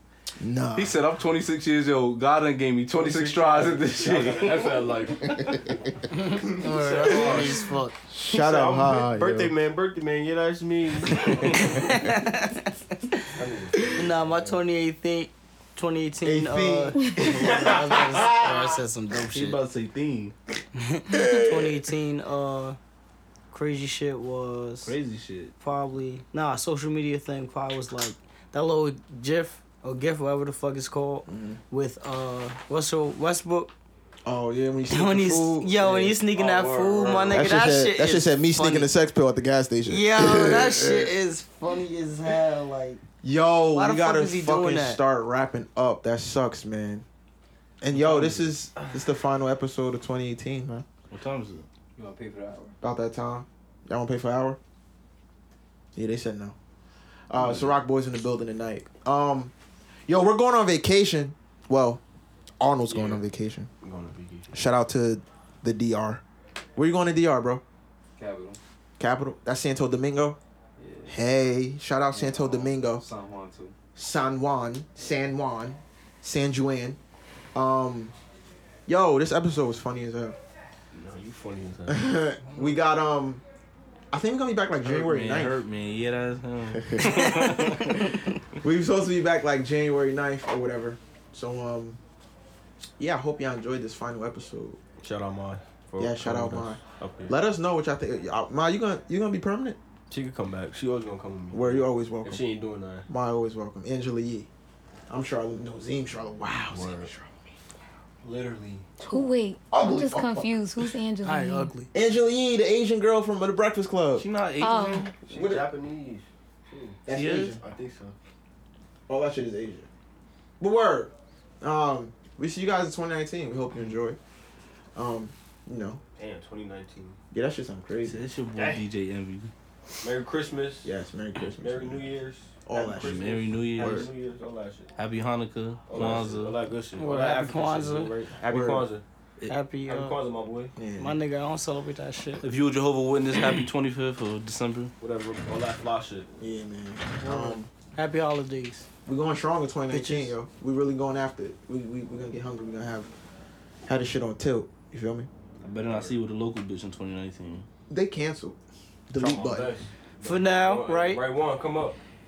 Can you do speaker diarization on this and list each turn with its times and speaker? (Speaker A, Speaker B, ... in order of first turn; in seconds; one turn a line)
Speaker A: 0.4-1.0
Speaker B: 0.8-5.6
Speaker C: 2.9-5.4
Speaker D: 6.2-8.0
Speaker C: 6.5-7.7
Speaker A: 8.1-9.5
Speaker C: 8.3-11.8
Speaker D: 11.6-12.6
Speaker C: 13.3-14.6
Speaker D: 14.0-19.6
Speaker A: 16.2-18.4
Speaker C: 17.2-18.8
Speaker B: 19.3-20.4
Speaker D: 20.8-22.8
Speaker D: 23.5-25.0
Speaker B: 24.8-25.6
Speaker D: 25.6-33.7
Speaker A: 31.3-31.6
Speaker A: 34.2-35.9
Speaker D: 34.9-38.9
Speaker C: 35.8-37.6
Speaker A: 37.3-41.1
Speaker D: 39.9-43.0
Speaker A: 43.2-47.0
Speaker D: 43.7-45.0
Speaker A: 47.8-50.9
Speaker E: 48.0-48.4
Speaker B: 51.1-51.7
Speaker E: 52.0-52.8
Speaker A: 52.8-54.6
Speaker A: 56.0-56.6
Speaker A: 57.3-59.5
Speaker C: 57.4-57.7
Speaker A: 60.1-62.0
Speaker A: 62.6-63.7
Speaker C: 62.9-63.2
Speaker C: 63.8-64.6
Speaker A: 64.5-66.2
Speaker A: 66.8-67.6
Speaker E: 68.2-68.6
Speaker A: 69.0-70.4
Speaker E: 70.8-71.2
Speaker A: 71.1-73.0
Speaker E: 72.1-73.7
Speaker A: 74.0-77.0
Speaker A: 77.5-78.2
Speaker A: 78.9-80.4
Speaker C: 80.9-82.0
Speaker A: 81.9-83.4
Speaker A: 84.1-85.6
Speaker B: 84.8-88.2
Speaker A: 86.8-87.3
Speaker A: 88.6-92.0
Speaker A: 93.0-94.8
Speaker C: 95.0-97.4
Speaker A: 96.0-99.8
Speaker C: 100.1-103.1
Speaker A: 101.5-102.4
Speaker A: 103.1-104.5
Speaker A: 105.1-107.5
Speaker C: 106.7-107.1
Speaker C: 108.2-108.9
Speaker A: 109.0-110.5
Speaker F: 109.1-111.7
Speaker D: 111.2-111.9
Speaker A: 111.9-114.3
Speaker B: 114.2-115.2
Speaker F: 114.6-115.1
Speaker C: 115.3-118.2
Speaker A: 115.3-115.7
Speaker A: 117.1-117.6
Speaker B: 117.1-117.5
Speaker A: 119.1-119.9
Speaker A: 120.6-124.2
Speaker A: 125.0-126.0
Speaker C: 126.2-127.2
Speaker A: 127.3-128.2
Speaker B: 128.0-129.5
Speaker C: 128.5-128.8
Speaker C: 130.0-130.9
Speaker A: 130.8-132.1
Speaker C: 131.6-134.9
Speaker A: 132.7-134.1
Speaker B: 133.0-134.1
Speaker B: 135.0-136.6
Speaker C: 135.9-139.0
Speaker D: 137.0-138.2
Speaker A: 138.4-138.9
Speaker D: 139.5-140.2
Speaker C: 139.9-140.7
Speaker A: 140.8-141.2
Speaker D: 141.0-142.4
Speaker B: 142.4-144.9
Speaker C: 145.0-146.3
Speaker A: 146.4-147.7
Speaker D: 147.2-148.9
Speaker A: 149.1-153.1
Speaker D: 149.9-150.3
Speaker A: 153.9-155.3
Speaker B: 155.6-157.7
Speaker C: 155.8-156.2
Speaker A: 157.9-158.6
Speaker A: 159.1-159.7
Speaker C: 159.2-162.0
Speaker D: 160.2-161.2